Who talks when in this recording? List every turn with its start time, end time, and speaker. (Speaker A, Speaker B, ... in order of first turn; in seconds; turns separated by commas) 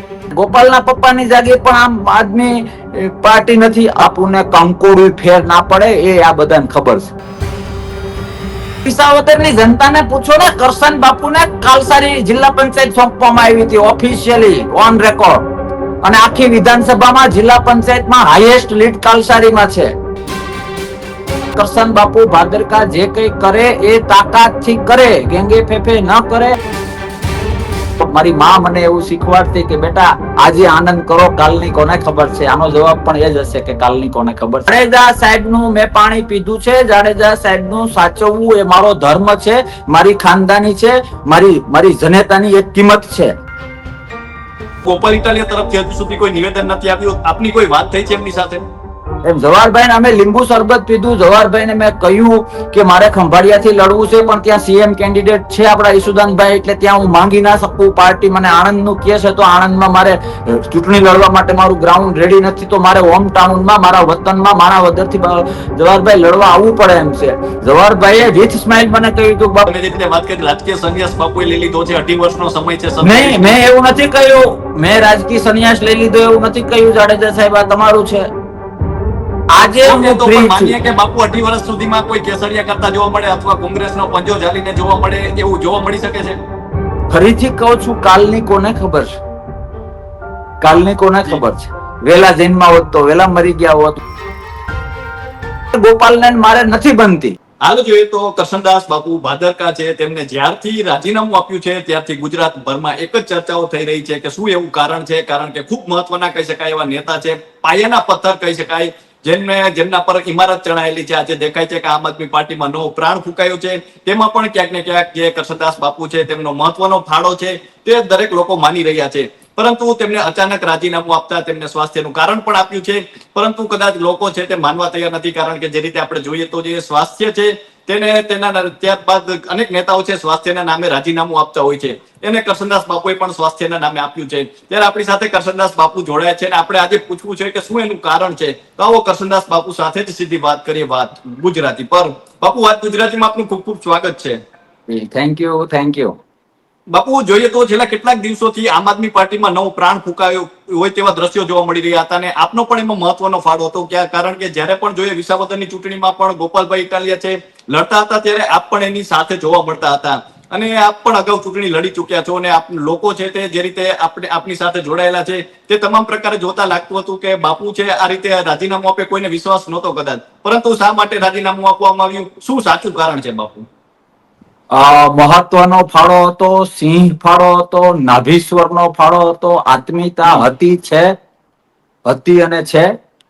Speaker A: 0.3-7.1, Speaker A: 8.8-15.4, Speaker A: 16.0-19.9, Speaker A: 21.6-26.6, Speaker A: 28.0-43.3, Speaker B: 44.8-48.6, Speaker A: 49.2-69.7, Speaker B: 69.7-73.5, Speaker A: 73.0-78.3, Speaker A: 79.5-80.7, Speaker B: 79.8-86.4, Speaker A: 87.1-89.1, Speaker A: 90.6-94.0, Speaker A: 95.7-97.3, Speaker B: 97.6-144.4, Speaker A: 144.9-146.2, Speaker B: 146.9-173.7, Speaker A: 174.7-181.1, Speaker B: 180.2-180.5, Speaker A: 182.1-182.9